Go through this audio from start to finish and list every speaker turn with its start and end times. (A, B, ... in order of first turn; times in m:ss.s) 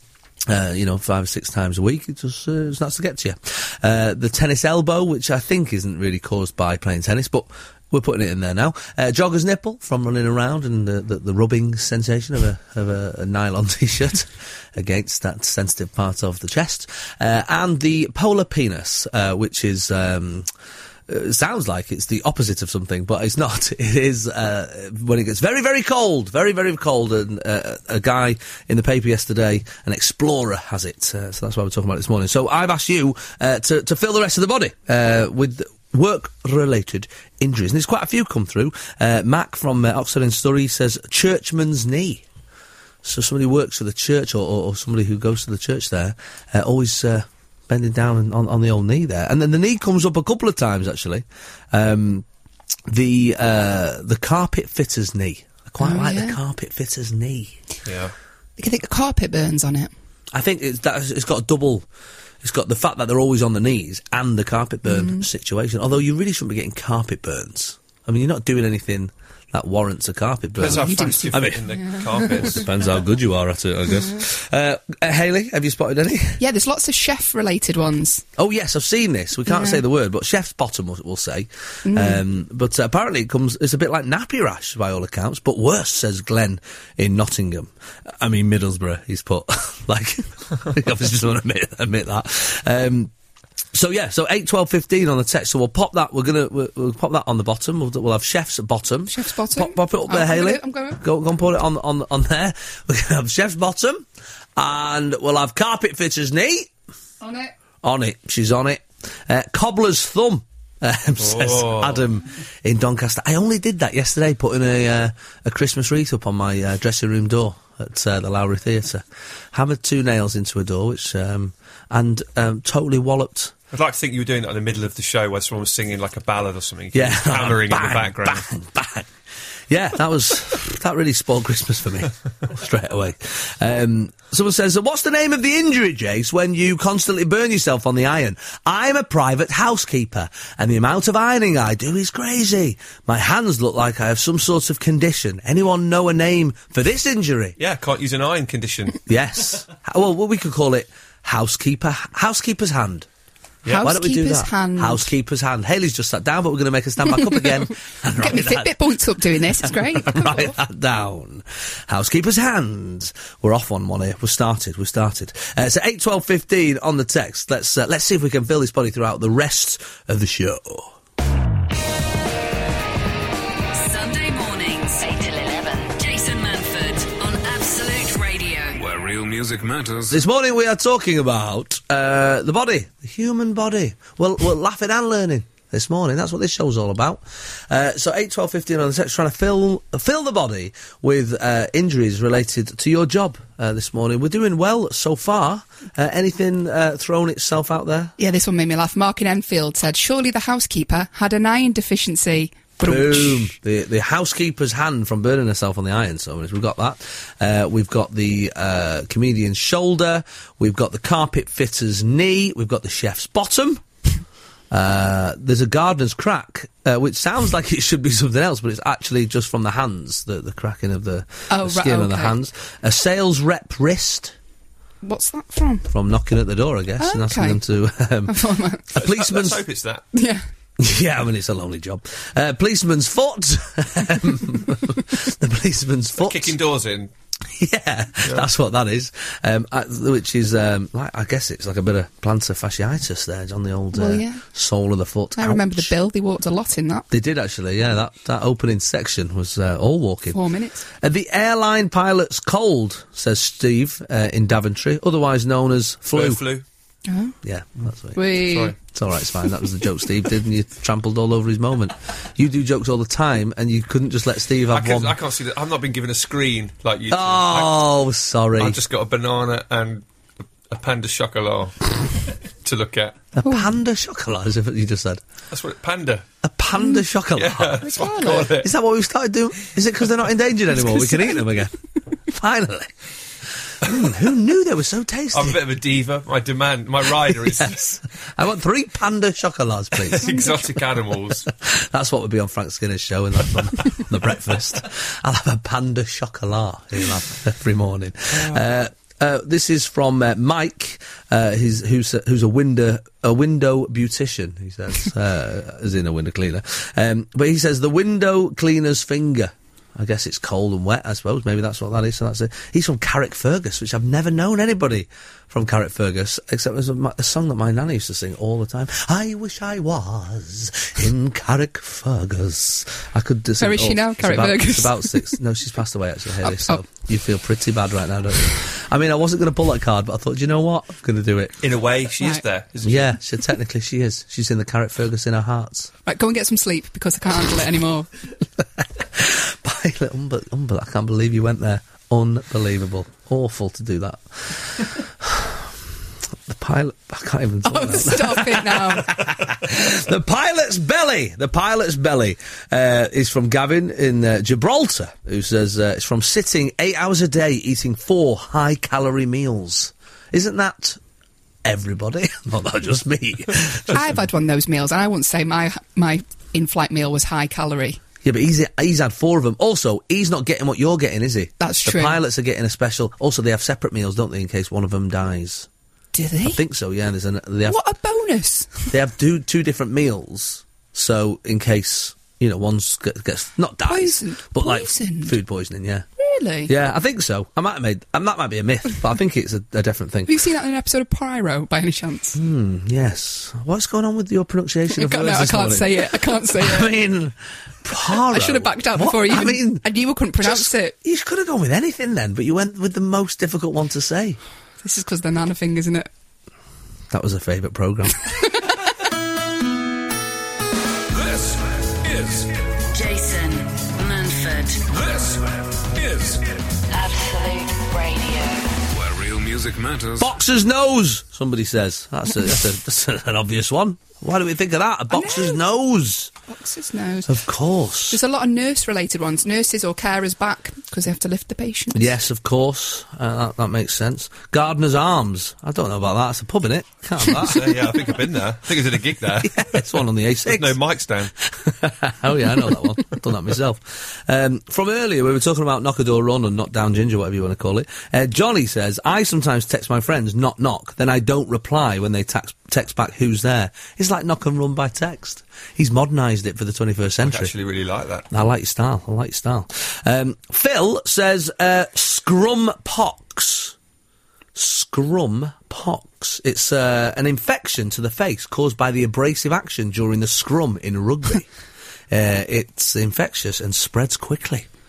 0:00.5-0:20.5 A
0:21.1-0:42.2 A
0:43.0-0:52.2 A
0:52.9-0:57.6 A
0:55.8-0:56.4 B
0:57.8-0:58.1 C
0:58.6-0:59.9 B
1:00.3-1:01.9 A
1:02.4-1:11.6 A
1:04.9-1:05.2 B
1:10.6-1:12.7 C
1:10.6-1:12.3 B
1:12.1-1:16.4 A
1:16.4-1:18.2 B
1:18.4-1:33.1 A
1:19.5-1:19.8 B
1:21.8-1:22.2 B
1:33.7-1:46.7 A
1:39.1-1:41.0 B
1:47.2-1:47.5 B
1:47.8-2:03.5 A
1:51.2-1:52.0 C
2:03.7-2:08.5 C
2:06.9-2:09.1 A
2:09.7-2:27.6 A
2:27.6-2:29.0 C
2:29.1-2:33.1 A
2:33.7-2:35.1 B
2:33.8-2:38.8 A
2:37.0-2:40.5 B
2:39.6-2:50.9 A
2:53.7-2:58.8 D
2:58.7-3:00.2 E
3:00.1-3:18.1 A
3:18.2-3:23.5 B
3:22.8-3:33.8 A
3:34.7-3:44.3 A
3:41.5-3:42.3 B
3:45.0-3:45.9 B
3:45.9-3:49.6 A
3:47.0-3:47.6 B
3:48.3-3:48.9 B
3:49.0-3:50.0 C
3:50.1-3:50.4 B
3:50.8-3:56.6 A
3:56.2-3:57.1 C
3:57.5-4:05.9 A
4:03.9-4:04.4 B
4:05.4-4:07.1 B
4:07.1-4:10.4 A
4:10.3-4:10.8 B
4:10.9-4:16.4 A
4:16.1-4:16.6 C
4:17.1-4:17.3 B
4:17.4-4:18.3 A
4:18.1-4:18.7 B
4:18.4-4:18.7 C
4:18.9-4:25.2 A
4:24.7-4:27.8 C
4:27.1-4:28.8 A
4:28.6-4:30.0 C
4:30.7-4:33.2 C
4:33.4-4:35.2 A
4:35.5-4:36.2 C
4:36.4-4:42.9 A
4:37.3-4:38.7 C
4:37.8-4:38.5 B
4:40.9-4:41.4 B
4:43.8-4:45.6 A
4:45.3-4:47.8 C
4:47.3-4:50.3 A
4:50.0-4:51.5 C
4:50.2-4:50.6 B
4:51.5-5:31.6 A
4:58.3-4:58.6 C
5:23.6-5:25.4 B
5:26.4-5:26.8 B
5:31.6-5:33.2 C
5:32.8-5:35.9 A
5:36.0-5:38.1 B
5:38.6-5:45.8 A
5:46.5-6:01.0 A
5:47.6-5:49.1 B
6:01.6-6:04.1 A
6:03.9-6:08.0 B
6:08.2-6:15.7 A
6:11.6-6:12.2 B
6:16.1-6:16.6 B
6:16.4-6:17.8 A
6:17.6-6:18.9 B
6:18.9-6:26.0 A
6:23.8-6:25.4 B
6:26.2-6:26.7 B
6:26.7-6:30.4 A
6:30.2-6:32.4 B
6:32.3-6:39.8 A
6:34.9-6:36.9 B
6:38.1-6:40.9 B
6:40.4-6:44.4 A
6:44.8-6:46.1 B
6:47.1-6:48.2 A
6:51.1-6:52.8 E
6:52.9-6:54.8 D
6:54.8-6:56.8 E
6:56.9-6:58.7 D
6:58.9-7:00.3 E
7:00.2-7:06.3 A
7:05.1-7:05.6 B
7:06.5-7:07.4 B
7:07.2-7:08.2 A
7:08.1-7:12.1 B
7:11.9-7:18.0 A
7:17.3-7:21.3 C
7:19.4-7:20.8 A
7:21.4-7:37.5 A
7:37.2-7:38.2 C
7:38.3-7:43.7 A
7:44.5-7:51.5 A
7:52.1-7:54.7 A